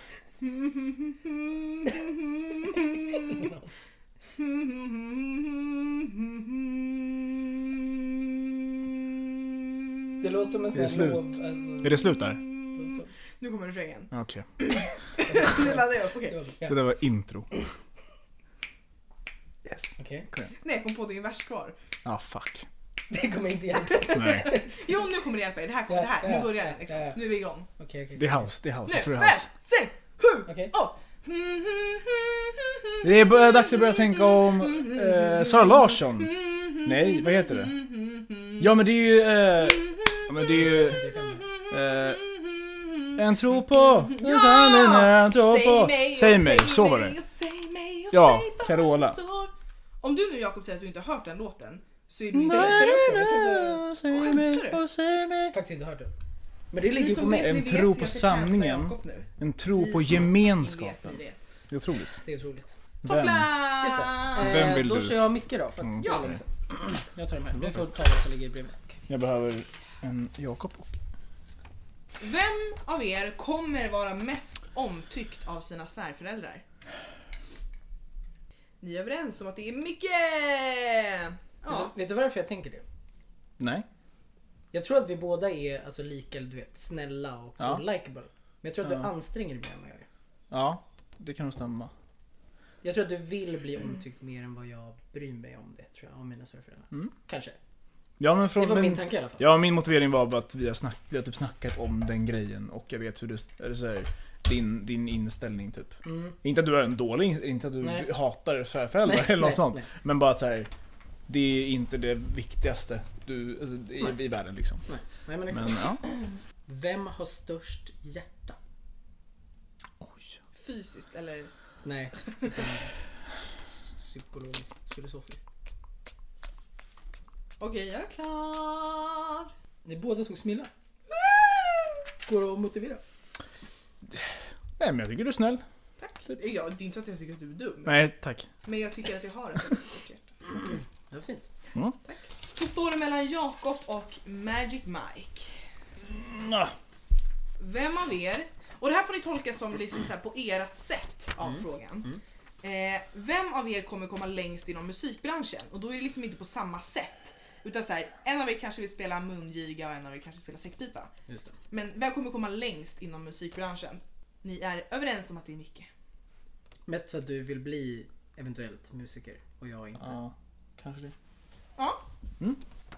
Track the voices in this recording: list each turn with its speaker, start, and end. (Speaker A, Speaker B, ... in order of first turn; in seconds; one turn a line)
Speaker A: 0.4-3.5
Speaker B: 3.2-3.6
Speaker A: 4.3-7.7
Speaker B: 10.2-12.1
Speaker C: 10.7-12.4
Speaker A: 11.8-16.4
Speaker B: 12.7-13.1
Speaker C: 14.1-14.5
Speaker B: 15.2-16.8
Speaker C: 16.7-17.5
Speaker C: 19.6-20.5
Speaker B: 20.0-20.3
Speaker A: 20.6-21.7
Speaker C: 22.0-22.7
Speaker B: 23.1-24.9
Speaker A: 24.1-27.7
Speaker C: 24.1-24.5
Speaker B: 25.9-28.5
Speaker C: 28.2-29.5
Speaker A: 28.9-38.7
Speaker B: 30.5-30.7
Speaker C: 33.0-37.8
Speaker C: 38.6-41.0
Speaker A: 39.5-53.3
Speaker B: 40.4-41.5
Speaker C: 41.7-42.2
Speaker C: 43.1-47.2
Speaker C: 48.1-49.2
Speaker C: 52.3-55.5
Speaker B: 52.4-53.8
Speaker A: 54.0-54.8
Speaker B: 55.5-56.1
Speaker B: 56.7-57.6
Speaker A: 56.8-61.4
Speaker C: 57.3-61.2
Speaker C: 61.7-62.2
Speaker B: 62.2-62.7
Speaker C: 63.0-63.5
Speaker A: 63.0-64.6
Speaker B: 63.8-68.9
Speaker C: 64.3-65.3
Speaker C: 65.8-66.4
Speaker A: 66.0-66.4
Speaker C: 67.5-67.9
Speaker C: 69.1-71.0
Speaker A: 72.2-76.6
Speaker A: 78.8-81.9
Speaker B: 81.7-82.8
Speaker C: 83.6-83.8
Speaker B: 84.7-90.1
Speaker C: 90.5-91.9
Speaker B: 92.8-97.6
Speaker C: 98.2-110.7
Speaker B: 98.5-99.5
Speaker B: 106.0-106.3
Speaker B: 107.8-108.1
Speaker B: 109.0-109.8
Speaker C: 111.3-114.8
Speaker B: 114.8-118.6
Speaker C: 115.5-116.0
Speaker C: 120.0-120.4
Speaker A: 120.5-121.5
Speaker B: 121.8-122.9
Speaker A: 122.3-122.5
Speaker B: 123.8-125.5
Speaker A: 127.6-129.5
Speaker B: 129.8-130.7
Speaker A: 131.1-132.0
Speaker B: 132.2-133.0
Speaker C: 134.1-135.6
Speaker A: 136.0-138.0
Speaker C: 137.8-138.5
Speaker A: 138.6-140.2
Speaker B: 140.7-141.5
Speaker A: 142.1-145.5
Speaker C: 146.0-146.7
Speaker A: 147.6-161.1
Speaker B: 161.3-161.5
Speaker A: 161.7-165.9
Speaker B: 166.9-170.2
Speaker C: 170.0-171.1
Speaker A: 171.8-172.0